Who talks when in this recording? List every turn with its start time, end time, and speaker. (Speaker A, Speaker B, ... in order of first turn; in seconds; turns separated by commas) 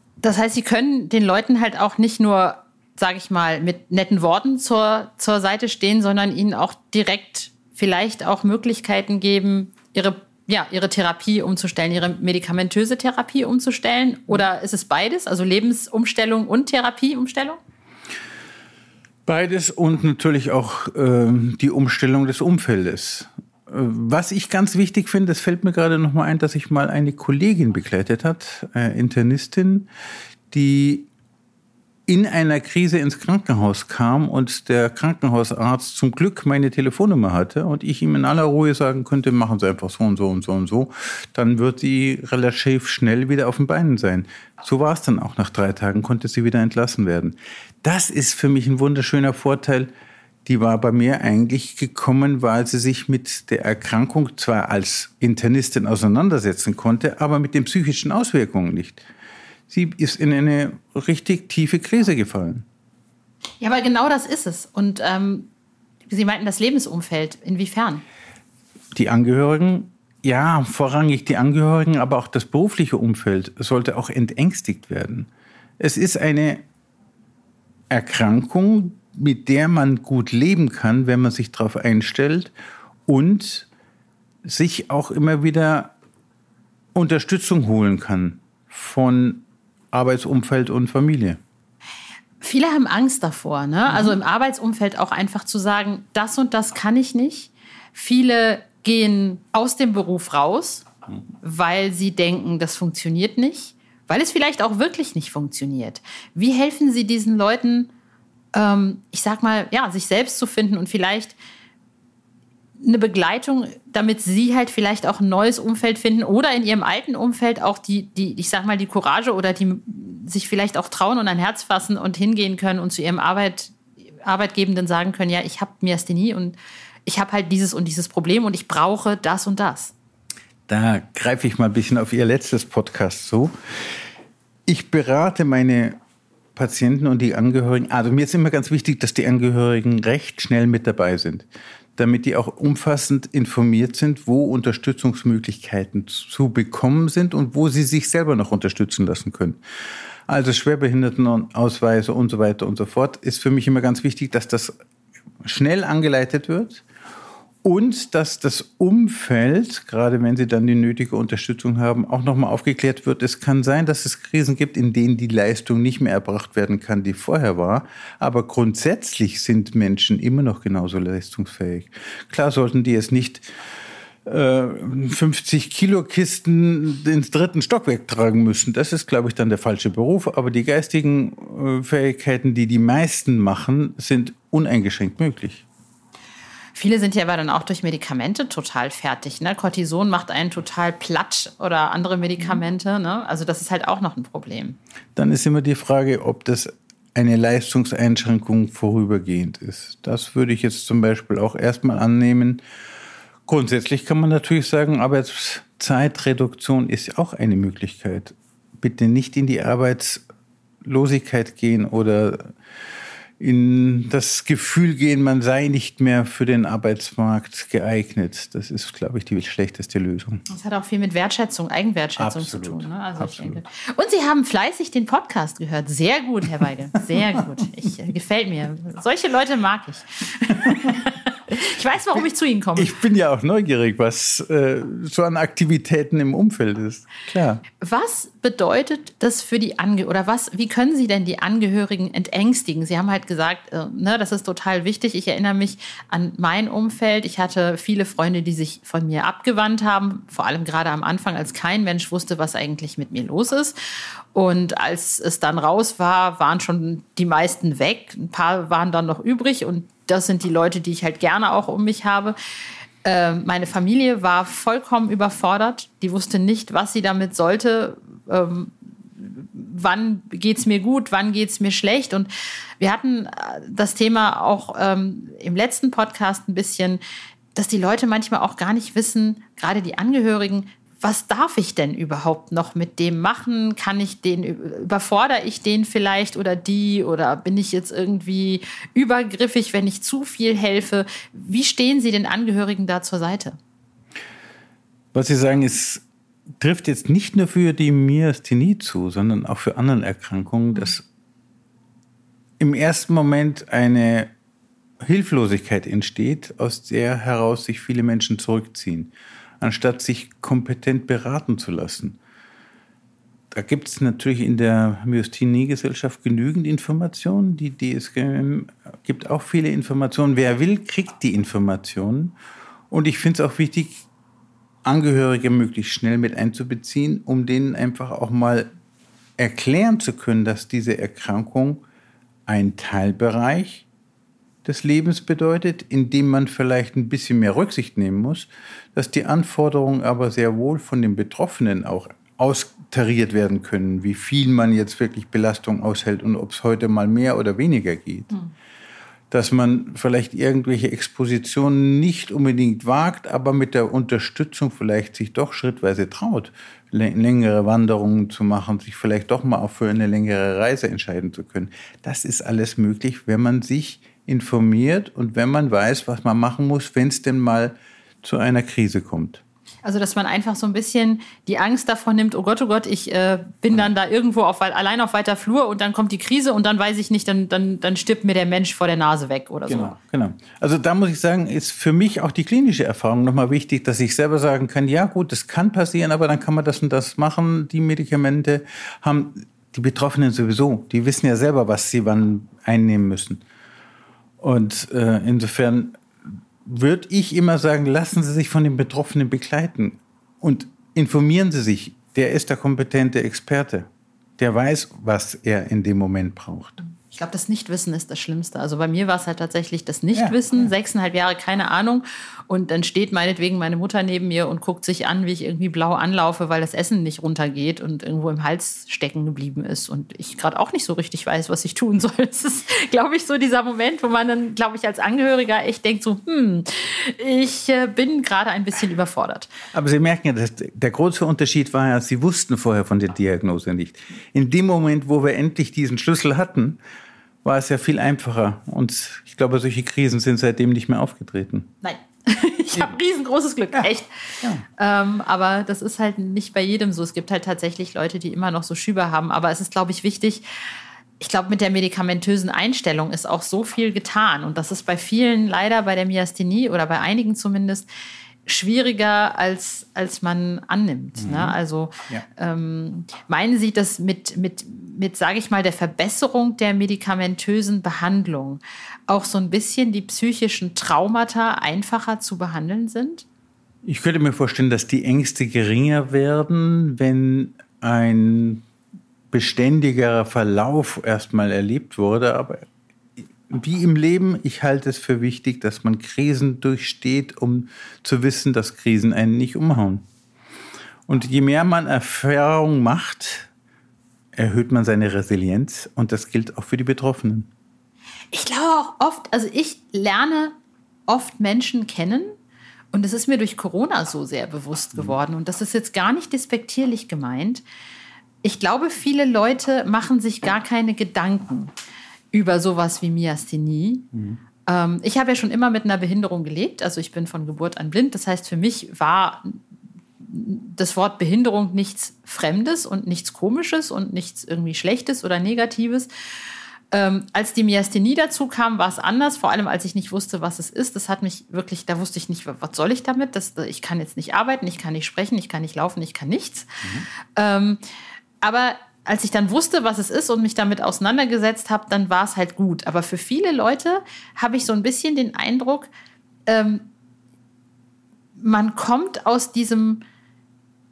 Speaker A: 0.2-17.6, Speaker B: 19.2-29.9, Speaker B: 30.5-31.1, Speaker B: 32.1-49.9, Speaker B: 50.5-59.0, Speaker B: 59.7-62.6, Speaker A: 63.6-65.5, Speaker A: 66.1-68.0, Speaker B: 68.9-75.3, Speaker B: 75.8-76.6, Speaker B: 77.9-82.5, Speaker B: 83.1-83.7, Speaker B: 84.4-85.9, Speaker B: 86.9-91.4, Speaker A: 92.4-100.9, Speaker B: 93.9-94.2, Speaker A: 101.4-107.9, Speaker A: 108.5-111.3, Speaker A: 112.8-129.9, Speaker B: 130.7-133.5, Speaker B: 134.7-136.0, Speaker B: 136.6-149.6, Speaker B: 150.3-154.7, Speaker B: 155.4-156.8, Speaker B: 157.6-173.4, Speaker B: 174.2-185.6, Speaker A: 186.7-194.8, Speaker B: 195.1-202.6, Speaker B: 203.5-210.2, Speaker B: 210.8-212.5, Speaker B: 213.4-220.4, Speaker A: 220.5-232.9, Speaker B: 222.2-223.6, Speaker B: 232.8-237.6, Speaker A: 237.8-253.8, Speaker A: 254.3-262.4, Speaker A: 263.0-272.3, Speaker A: 272.8-277.0, Speaker A: 277.5-293.6, Speaker B: 295.1-296.0, Speaker B: 296.6-301.0, Speaker B: 302.6-304.3, Speaker B: 305.0-312.2, Speaker B: 313.5-322.4, Speaker B: 322.9-324.0, Speaker B: 324.9-328.7, Speaker B: 329.4-331.8, Speaker B: 332.5-333.9, Speaker B: 334.6-348.4, Speaker B: 349.3-369.4, Speaker A: 369.8-379.9, Speaker B: 379.7-393.4, Speaker B: 394.4-396.0, Speaker B: 396.6-403.9, Speaker B: 404.4-406.8, Speaker A: 406.9-429.5, Speaker B: 410.1-410.7, Speaker B: 429.7-436.8, Speaker B: 437.4-441.7, Speaker A: 441.8-444.1, Speaker A: 444.7-450.4, Speaker A: 451.2-457.9, Speaker A: 458.4-473.2, Speaker B: 461.2-461.6, Speaker B: 473.8-478.6, Speaker B: 479.3-482.6, Speaker B: 483.4-490.0, Speaker B: 491.1-493.5, Speaker B: 494.4-497.5, Speaker A: 498.3-500.5, Speaker A: 501.1-502.3, Speaker A: 502.9-507.6, Speaker A: 508.4-511.7, Speaker A: 512.3-514.1, Speaker A: 514.6-519.5, Speaker A: 520.2-526.1, Speaker A: 526.9-536.7, Speaker A: 537.3-537.8, Speaker A: 538.4-545.9, Speaker A: 546.5-546.9, Speaker A: 548.4-550.0